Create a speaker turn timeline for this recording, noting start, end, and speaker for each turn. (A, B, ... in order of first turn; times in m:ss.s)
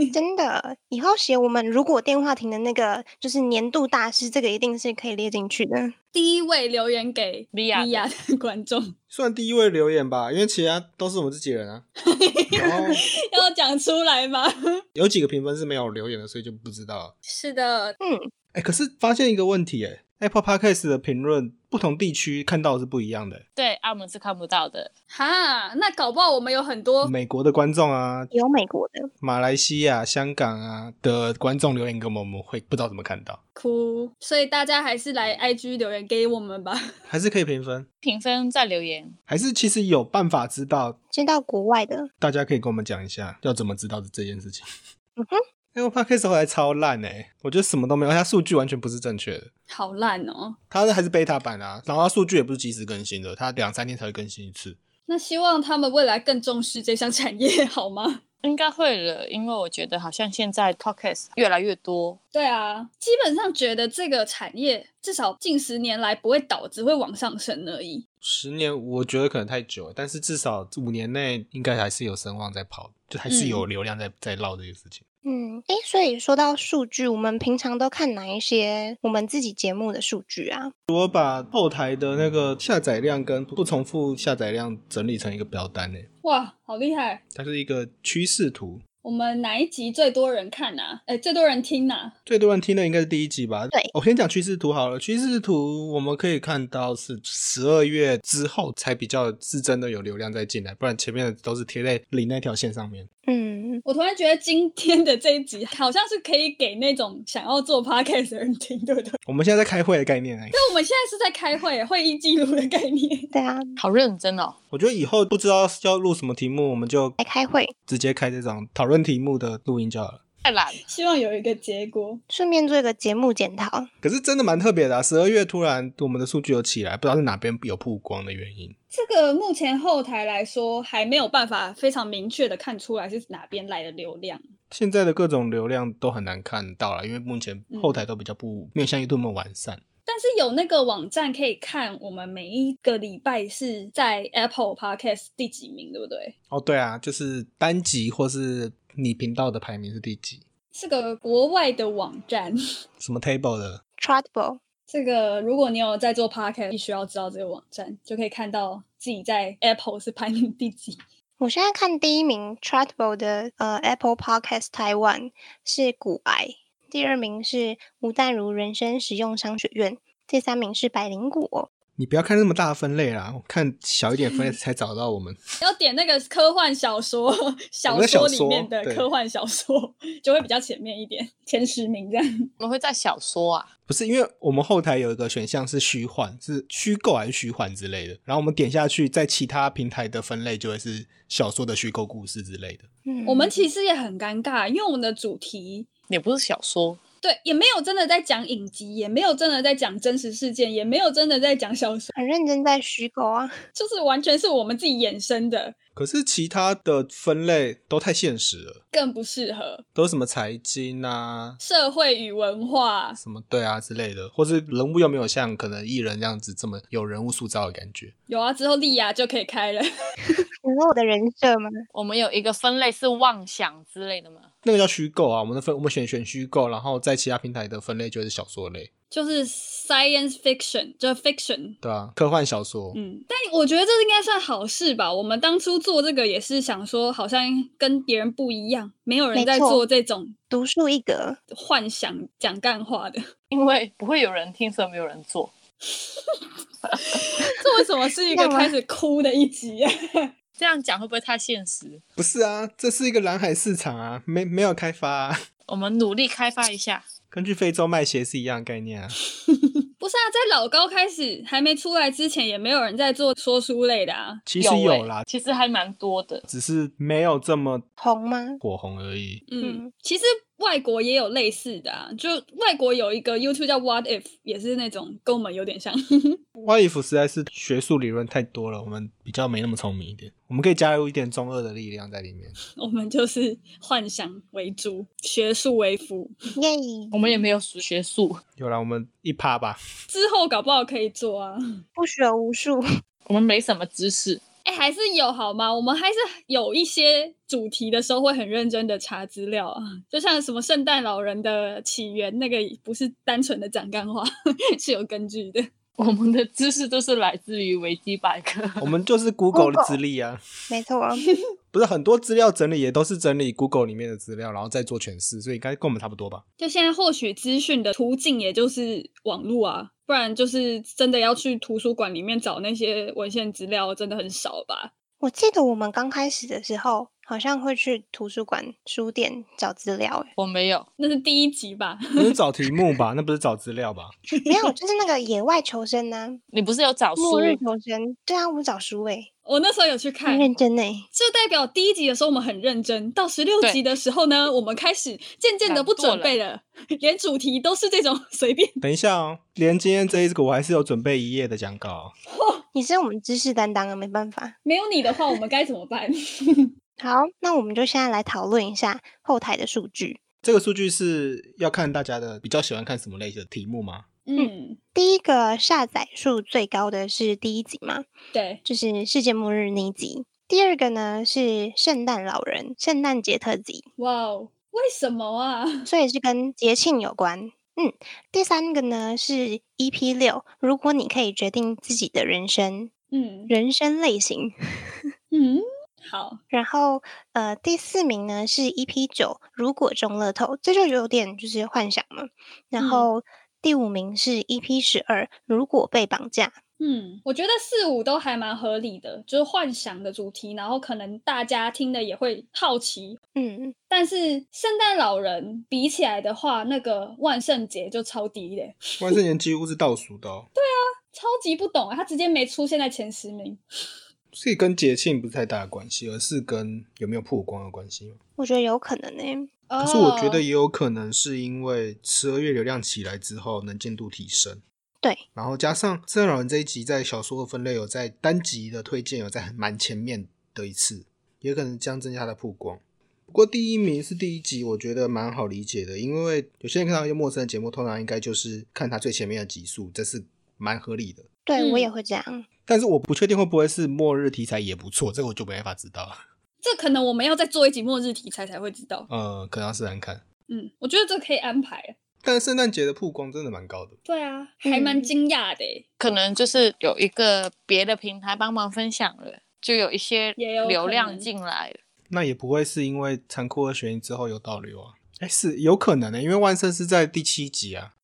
0:00.1-0:05.9 A
0:06.1-0:08.9 B
0:07.5-0:08.0 C
0:09.1-0:11.8 D
0:12.1-0:14.5 B
0:12.6-0:13.0 D
0:14.9-0:17.1 D
0:17.2-0:17.9 B
0:18.0-0:18.3 A
0:18.5-0:23.4 D
0:23.6-0:24.9 C
0:25.1-0:27.1 B
0:27.0-0:28.3 D
0:28.3-0:29.1 A
0:29.2-0:33.4 D
0:33.6-0:36.8 B
0:37.1-0:37.8 D
0:38.0-0:39.1 C
0:39.3-0:41.0 D
0:41.1-0:42.1 A
0:42.2-0:44.6 D
0:45.7-0:49.5 D
0:49.7-0:50.6 B
0:50.7-0:54.8 D
0:55.1-0:58.2 B
0:58.4-1:02.2 C
1:02.3-1:08.0 B
1:08.2-1:15.0 D
1:15.2-1:20.7 A
1:20.9-1:26.1 D
1:26.2-1:27.2 B
1:27.3-1:28.8 D
1:29.0-1:32.1 B
1:32.3-1:43.1 D
1:43.2-1:43.8 A
1:43.8-1:49.2 B
1:49.2-1:50.6 D
1:50.5-1:53.3 B
1:53.3-1:53.8 A
1:53.8-1:54.6 C
1:54.7-1:57.2 D
1:57.2-1:57.7 A
1:57.9-2:00.2 D
2:00.4-2:00.8 C
2:00.8-2:02.2 B
2:02.3-2:03.9 A
2:04.0-2:08.7 D
2:08.9-2:14.4 B
2:14.7-2:19.8 D
2:17.7-2:18.0 B
2:20.1-2:26.3 B
2:26.5-2:30.4 D
2:30.7-2:32.5 B
2:33.0-2:33.8 D
2:34.0-2:34.6 A
2:34.9-2:41.0 B
2:41.4-2:51.7 A
2:52.0-2:55.4 D
2:55.6-3:02.3 B
2:57.9-2:59.1 D
3:02.6-3:03.7 C
3:03.9-3:12.9 D
3:13.0-3:13.6 A
3:13.2-3:15.9 B
3:16.1-3:17.0 C
3:17.2-3:22.1 B
3:22.1-3:23.5 A
3:23.7-3:25.7 B
3:25.9-3:28.8 D
3:28.9-3:29.8 B
3:29.9-3:31.6 D
3:31.6-3:33.2 B
3:33.2-3:38.1 D
3:38.3-3:39.9 B
3:40.6-3:41.7 A
3:41.9-3:44.5 C
3:44.6-3:48.9 D
3:49.1-3:51.8 B
3:51.8-3:53.0 D
3:52.9-4:00.3 B
3:59.3-3:59.8 A
4:00.5-4:01.4 A
4:01.5-4:03.2 B
4:03.5-4:05.5 C
4:07.0-4:10.3 B
4:08.3-4:08.7 A
4:10.6-4:12.0 C
4:12.2-4:15.4 D
4:15.7-4:17.0 C
4:17.3-4:19.1 D
4:19.5-4:24.4 B
4:24.4-4:25.2 D
4:24.6-4:26.4 C
4:26.5-4:27.8 D
4:28.0-4:28.6 A
4:28.6-4:29.4 D
4:29.5-4:36.4 B
4:29.6-4:29.9 A
4:36.6-4:42.5 D
4:42.8-4:46.3 B
4:46.6-4:47.1 A
4:47.1-4:48.4 C
4:48.6-4:49.8 D
4:50.1-4:51.6 B
4:52.0-4:52.8 A
4:53.3-4:54.4 C
4:54.6-5:05.7 B
5:06.0-5:08.9 C
5:08.8-5:10.4 D
5:09.5-5:10.0 A
5:10.7-5:11.2 A
5:11.7-5:16.4 D
5:16.6-5:24.9 B
5:25.2-5:30.3 A
5:30.4-5:30.9 C
5:31.0-5:32.0 B
5:32.2-5:34.2 D
5:34.5-5:36.4 A
5:36.5-5:37.6 C
5:37.2-5:39.3 A
5:39.5-5:40.5 B
5:40.2-5:41.1 A
5:41.1-5:48.8 B
5:45.6-5:46.4 C
5:48.8-5:52.1 D
5:52.3-5:52.6 B
5:52.7-5:54.6 A
5:54.6-5:56.7 B
5:57.0-6:00.2 A
6:00.4-6:04.0 D
6:04.2-6:04.8 B
6:04.4-6:08.1 A
6:08.3-6:08.6 B
6:08.6-6:13.8 A
6:14.0-6:15.9 B
6:15.8-6:22.9 A
6:23.1-6:23.5 B
6:23.5-6:24.5 A
6:25.3-6:26.4 B
6:26.5-6:36.6 A
6:32.8-6:33.1 B
6:36.8-6:43.2 B
6:43.3-6:43.7 A
6:43.9-6:49.2 B
6:49.0-6:50.5 D
6:50.6-6:53.6 B
6:54.3-6:58.2 D
6:58.4-6:59.5 A
6:59.7-7:00.4 B
6:59.8-7:04.6 D
7:05.3-7:21.2 D
7:21.4-7:22.4 A
7:21.6-7:21.9 B
7:22.6-7:26.2 D
7:26.6-7:29.1 B
7:29.1-7:30.2 D
7:30.5-7:32.0 B
7:32.2-7:34.0 D
7:34.1-7:35.8 B
7:34.6-7:35.1 A
7:36.0-7:41.8 C
7:40.4-7:41.3 B
7:42.1-7:47.9 D